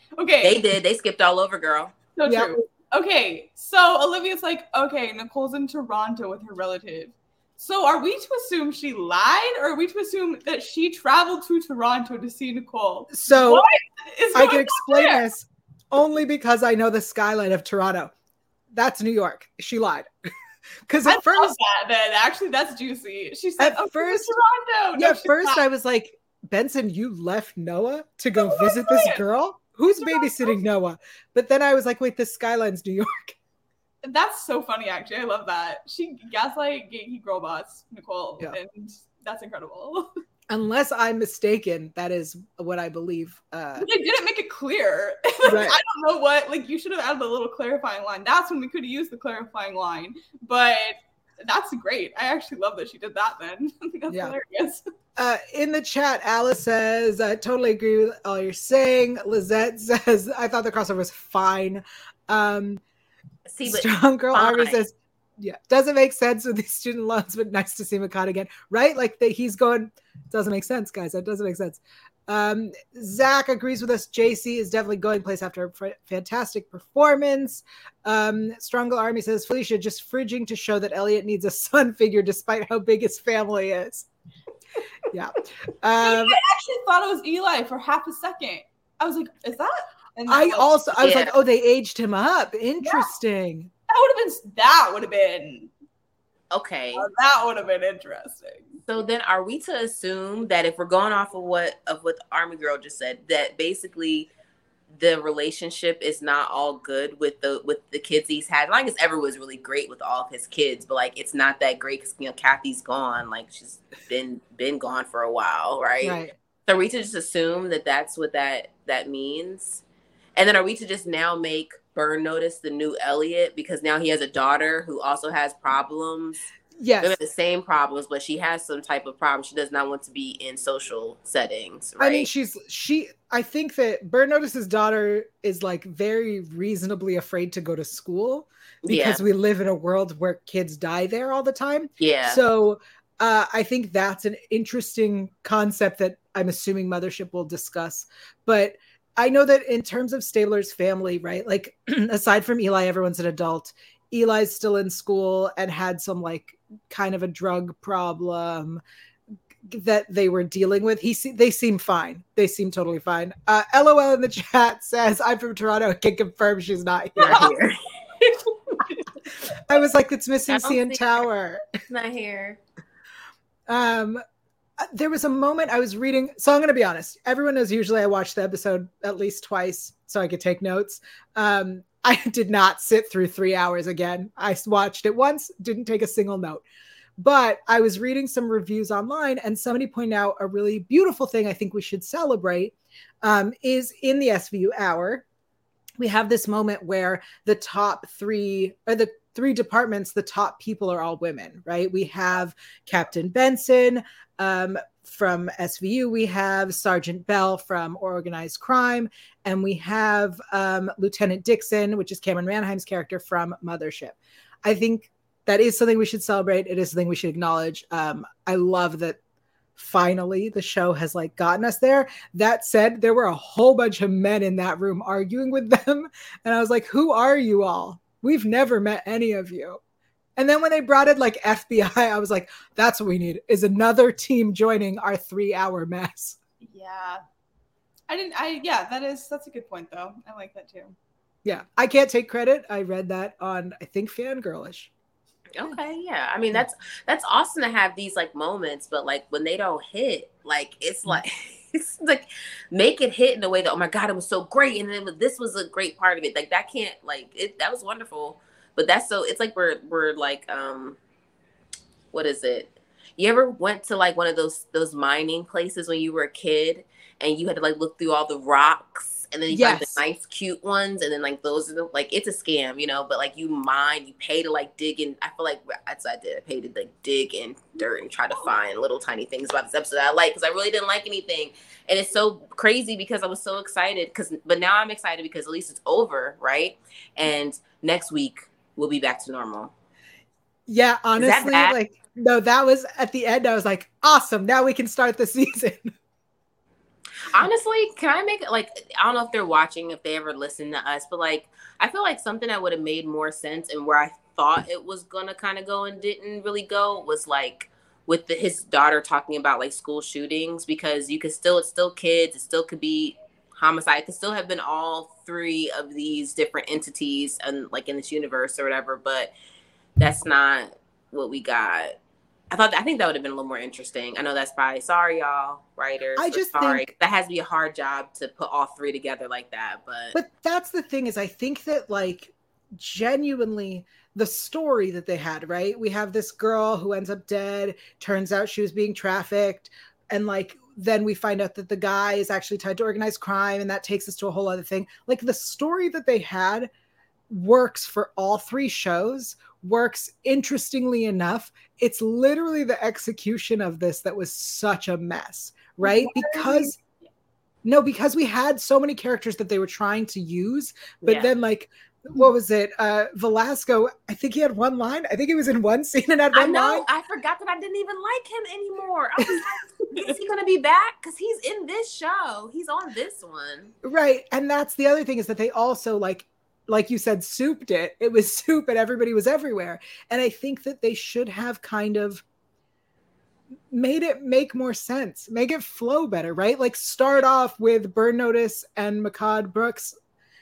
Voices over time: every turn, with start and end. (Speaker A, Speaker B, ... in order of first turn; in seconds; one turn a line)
Speaker A: 0.2-0.7
Speaker B: 0.4-2.0
Speaker A: 2.1-15.2
Speaker C: 2.3-2.5
Speaker C: 13.1-13.7
Speaker C: 14.3-18.1
Speaker C: 18.7-20.1
Speaker C: 20.9-21.6
Speaker A: 21.1-25.6
Speaker C: 23.6-24.3
Speaker C: 24.9-33.4
Speaker A: 28.4-29.2
Speaker A: 30.0-30.6
Speaker A: 34.0-40.1
Speaker C: 40.5-43.9
Speaker A: 43.8-54.9
Speaker C: 45.5-45.8
Speaker C: 54.1-54.4
Speaker C: 55.2-62.8
Speaker B: 63.5-64.8
Speaker C: 63.6-84.1
Speaker C: 85.1-86.4
Speaker A: 86.0-90.8
Speaker C: 90.3-93.7
Speaker B: 91.0-91.3
Speaker A: 92.8-93.1
Speaker A: 93.9-95.7
Speaker B: 96.5-97.1
Speaker A: 97.0-98.8
Speaker B: 98.9-104.3
Speaker B: 104.9-119.8
Speaker C: 116.0-116.3
Speaker B: 120.4-126.5
Speaker C: 126.8-127.2
Speaker B: 127.0-132.3
Speaker C: 132.0-158.8
Speaker B: 138.8-139.2
Speaker B: 142.0-142.4
Speaker C: 159.7-167.5
Speaker A: 167.2-167.6
Speaker B: 167.2-167.8
Speaker A: 168.2-169.0
Speaker C: 169.5-171.8
Speaker B: 170.5-171.2
Speaker B: 171.8-172.6
Speaker C: 173.7-174.2
Speaker C: 174.8-186.6
Speaker C: 187.2-195.2
Speaker C: 196.0-219.2
Speaker C: 219.8-229.8
Speaker C: 230.4-236.4
Speaker A: 236.6-237.2
Speaker A: 238.1-240.9
Speaker C: 241.4-244.9
Speaker B: 245.6-261.0
Speaker B: 262.1-289.7
Speaker C: 269.5-270.0
Speaker C: 290.7-295.9
Speaker B: 291.2-291.8
Speaker B: 297.3-319.3
Speaker B: 320.0-321.9
Speaker B: 322.5-330.2
Speaker C: 326.2-326.9
Speaker C: 330.1-346.7
Speaker C: 347.3-356.8
Speaker A: 355.8-356.8
Speaker C: 357.6-366.9
Speaker B: 366.3-373.7
Speaker C: 373.8-382.2
Speaker C: 383.7-389.9